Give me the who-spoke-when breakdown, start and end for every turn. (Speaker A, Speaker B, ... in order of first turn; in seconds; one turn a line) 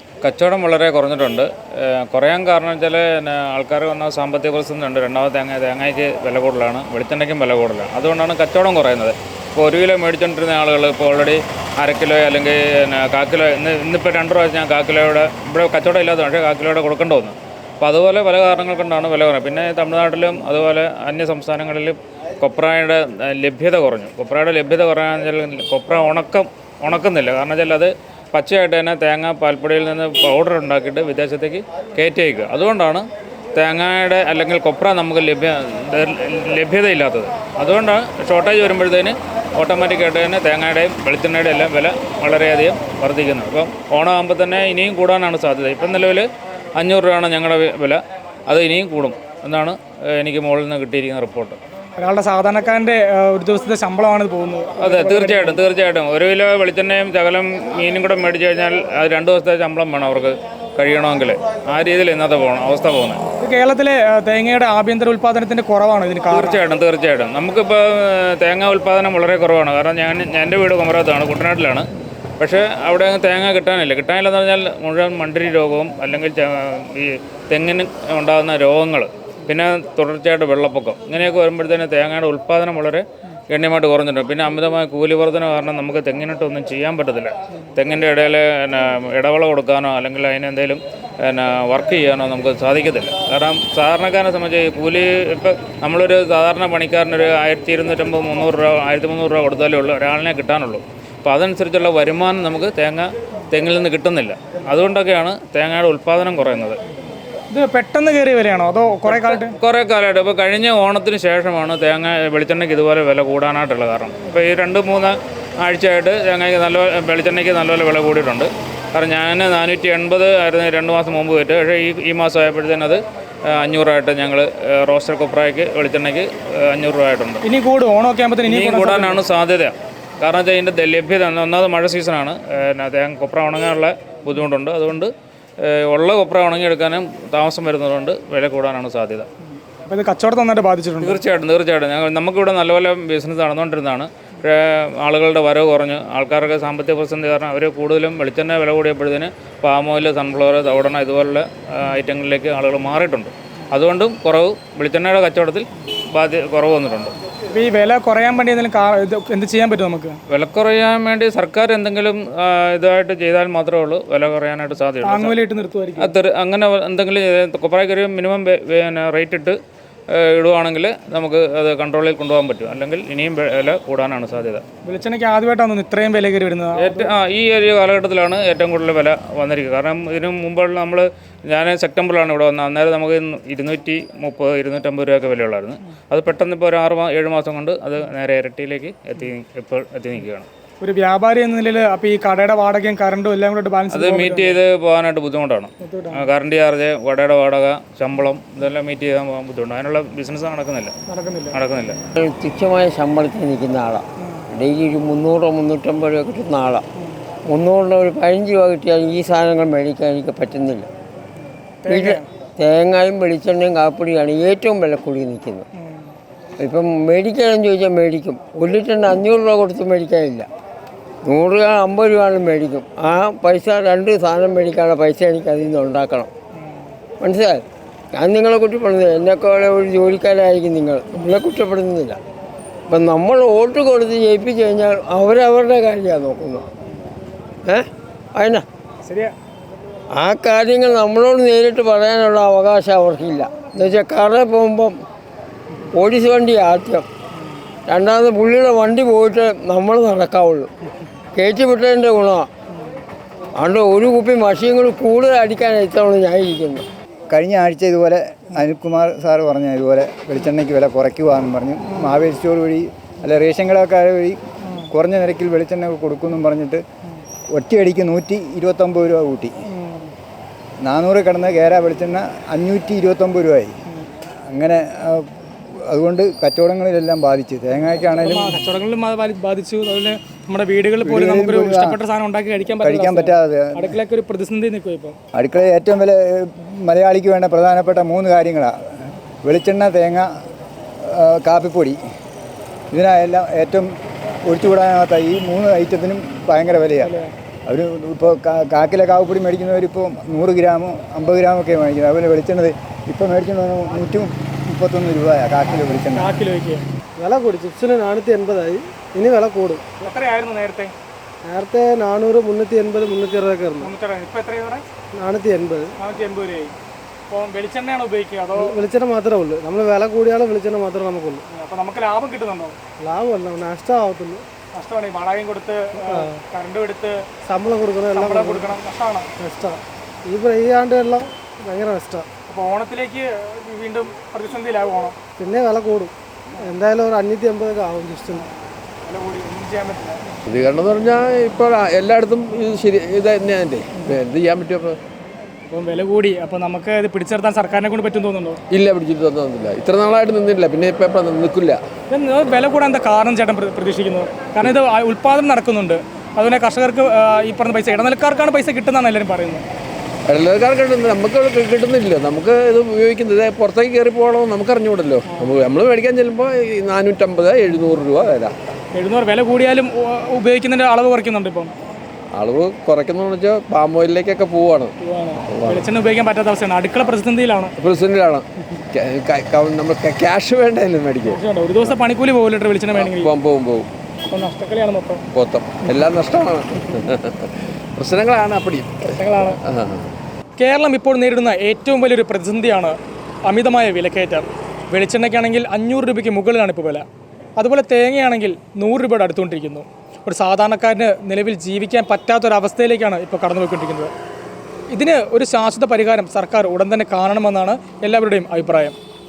Speaker A: 0.2-46.3
Speaker A: 46.8-51.6
Speaker B: 52.0-55.6
Speaker A: 54.8-63.2
Speaker B: 63.4-66.6
Speaker A: 66.3-71.9
Speaker A: 72.4-106.8
Speaker B: 107.5-109.6
Speaker A: 109.1-127.4
Speaker B: 127.4-129.2
Speaker A: 128.5-139.3
Speaker B: 139.9-141.2
Speaker A: 141.0-157.1
Speaker B: 157.5-160.2
Speaker A: 160.3-165.4
Speaker B: 165.0-166.1
Speaker A: 166.0-169.6
Speaker A: 170.1-174.6
Speaker B: 174.8-177.1
Speaker A: 176.8-190.5
Speaker B: 190.8-194.6
Speaker A: 193.9-200.9
Speaker B: 195.8-196.3
Speaker B: 201.1-201.6
Speaker A: 201.5-202.0
Speaker C: 202.2-206.8
Speaker C: 207.5-210.9
Speaker B: 211.8-212.2
Speaker C: 211.9-215.6
Speaker B: 215.8-216.1
Speaker C: 216.6-220.4
Speaker C: 221.2-226.3
Speaker C: 227.2-227.6
Speaker C: 228.1-232.2
Speaker C: 232.9-236.6
Speaker C: 237.6-238.6
Speaker B: 239.1-239.3
Speaker C: 240.1-245.0
Speaker C: 245.9-247.1
Speaker C: 247.9-250.7
Speaker C: 251.3-252.5
Speaker C: 253.6-256.9
Speaker D: 257.3-264.4
Speaker D: 264.9-266.8
Speaker D: 267.5-269.5
Speaker B: 269.7-270.1
Speaker D: 270.8-273.7
Speaker D: 274.5-278.6
Speaker B: 278.1-285.2
Speaker D: 281.0-282.0
Speaker D: 282.8-284.0
Speaker D: 285.3-288.7
Speaker D: 289.4-290.3
Speaker D: 291.0-292.0
Speaker D: 292.9-297.1
Speaker B: 297.0-297.3
Speaker D: 297.7-306.4
Speaker B: 306.1-306.9
Speaker E: 307.2-309.8
Speaker B: 310.0-310.9
Speaker E: 311.5-313.9
Speaker B: 313.8-314.8
Speaker E: 315.2-315.9
Speaker B: 316.0-316.7
Speaker B: 317.3-318.8
Speaker E: 318.6-321.4
Speaker B: 321.5-322.8
Speaker E: 323.0-324.4
Speaker B: 324.8-327.2
Speaker E: 326.0-326.4
Speaker E: 327.4-328.8
Speaker B: 328.1-329.3
Speaker E: 329.4-332.3
Speaker B: 332.5-335.1
Speaker E: 335.4-338.4
Speaker B: 339.1-340.2
Speaker F: 340.5-345.0
Speaker B: 345.7-348.6
Speaker F: 348.7-351.8
Speaker B: 352.1-359.6
Speaker F: 360.3-368.6
Speaker B: 368.9-371.7
Speaker F: 372.4-374.9
Speaker B: 375.0-377.7
Speaker F: 375.5-375.9
Speaker F: 377.8-381.9
Speaker B: 381.3-383.3
Speaker F: 382.9-383.9
Speaker B: 384.3-385.2
Speaker F: 385.3-390.1
Speaker B: 389.2-389.6
Speaker B: 390.6-397.1
Speaker B: 397.6-404.1
Speaker B: 404.9-408.9